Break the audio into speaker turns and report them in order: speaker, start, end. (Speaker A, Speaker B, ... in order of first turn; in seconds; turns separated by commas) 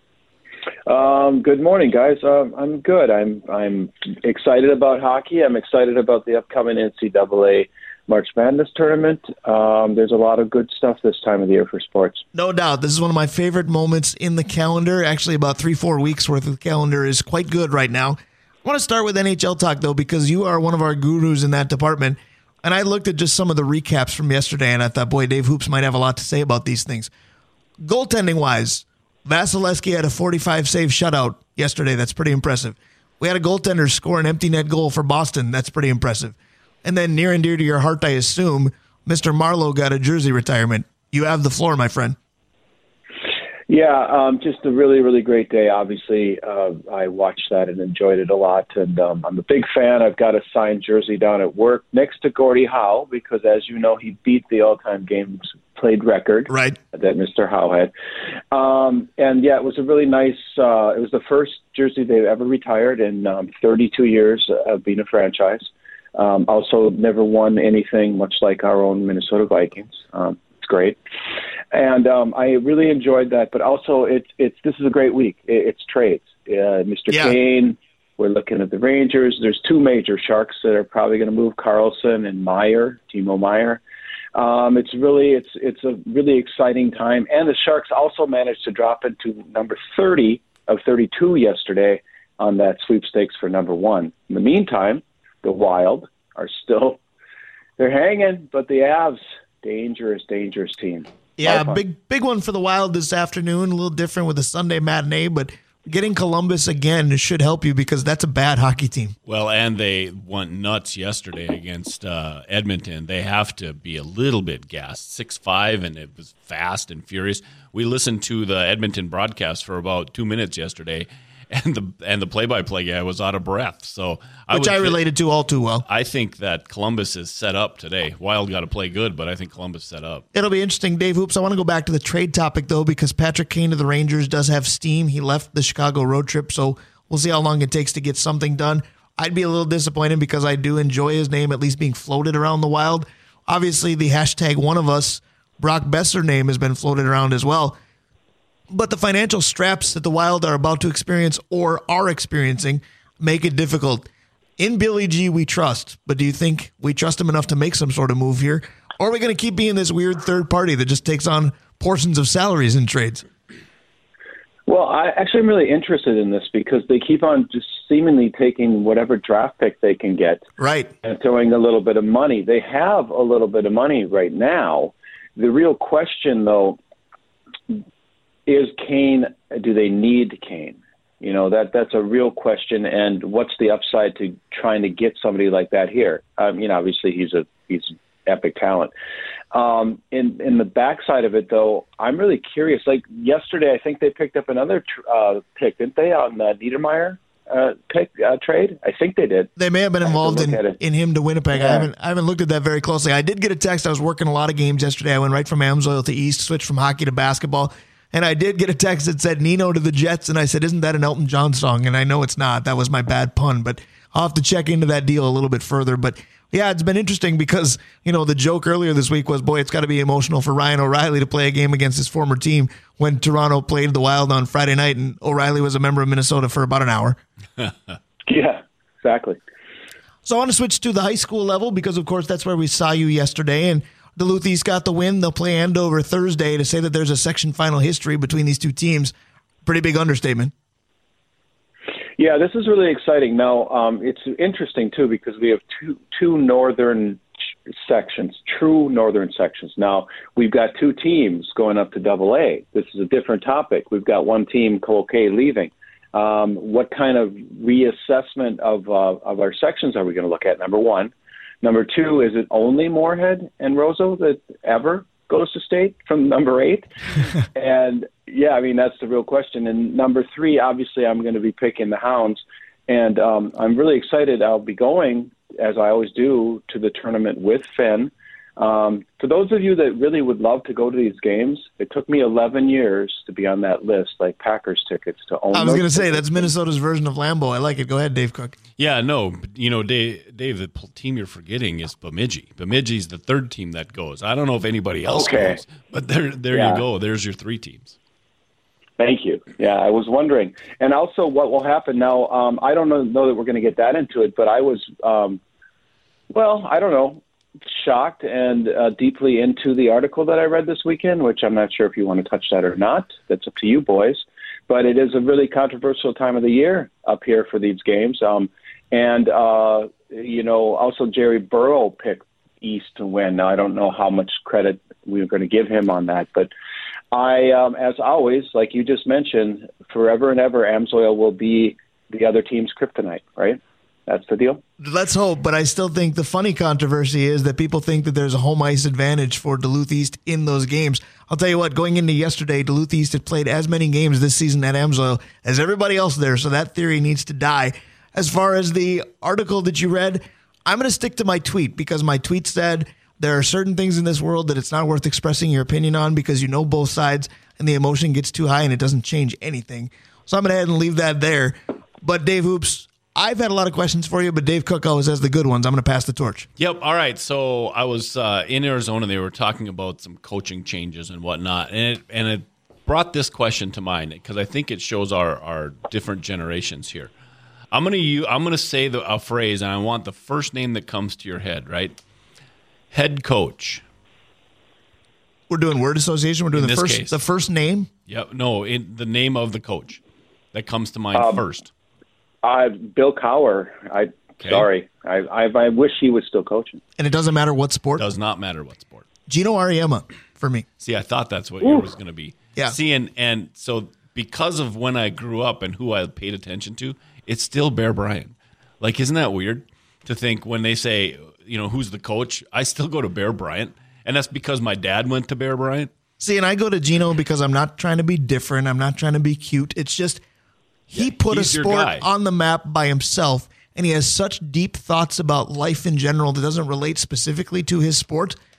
Speaker A: 0.9-12.2, Speaker B: 12.3-27.1, Speaker B: 27.8-42.2, Speaker A: 43.7-57.9, Speaker B: 56.5-56.8, Speaker A: 58.5-71.0, Speaker A: 71.7-83.8, Speaker B: 77.1-77.4, Speaker A: 84.3-97.0, Speaker A: 97.8-101.8, Speaker B: 101.4-109.2, Speaker C: 109.3-125.0, Speaker B: 124.5-125.8, Speaker C: 125.9-130.2, Speaker B: 130.3-147.8, Speaker B: 148.7-163.2, Speaker A: 164.7-170.4, Speaker B: 170.6-170.9, Speaker A: 171.0-176.8, Speaker A: 178.4-188.9, Speaker A: 189.5-199.5, Speaker B: 199.6-227.2, Speaker A: 200.0-200.8, Speaker A: 201.6-201.9, Speaker A: 228.3-229.4, Speaker B: 230.2-239.1, Speaker B: 239.6-240.5, Speaker A: 242.2-247.2, Speaker A: 247.8-286.5, Speaker B: 285.5-288.6, Speaker C: 288.8-297.9, Speaker A: 295.1-295.6, Speaker A: 296.5-296.8, Speaker A: 299.0-305.4, Speaker A: 306.3-326.5, Speaker A: 327.1-334.6, Speaker B: 334.8-366.5, Speaker C: 366.6-377.1, Speaker C: 377.7-382.0, Speaker C: 382.9-383.8, Speaker B: 385.5-387.9, Speaker C: 386.5-387.2, Speaker C: 388.1-390.0, Speaker C: 390.5-391.7, Speaker A: 391.1-391.4, Speaker A: 392.4-396.8, Speaker C: 394.4-394.7, Speaker B: 397.0-398.1, Speaker C: 398.0-399.1, Speaker B: 399.3-400.6, Speaker C: 400.8-415.9, Speaker B: 416.2-420.2, Speaker B: 420.9-428.4, Speaker C: 421.0-422.1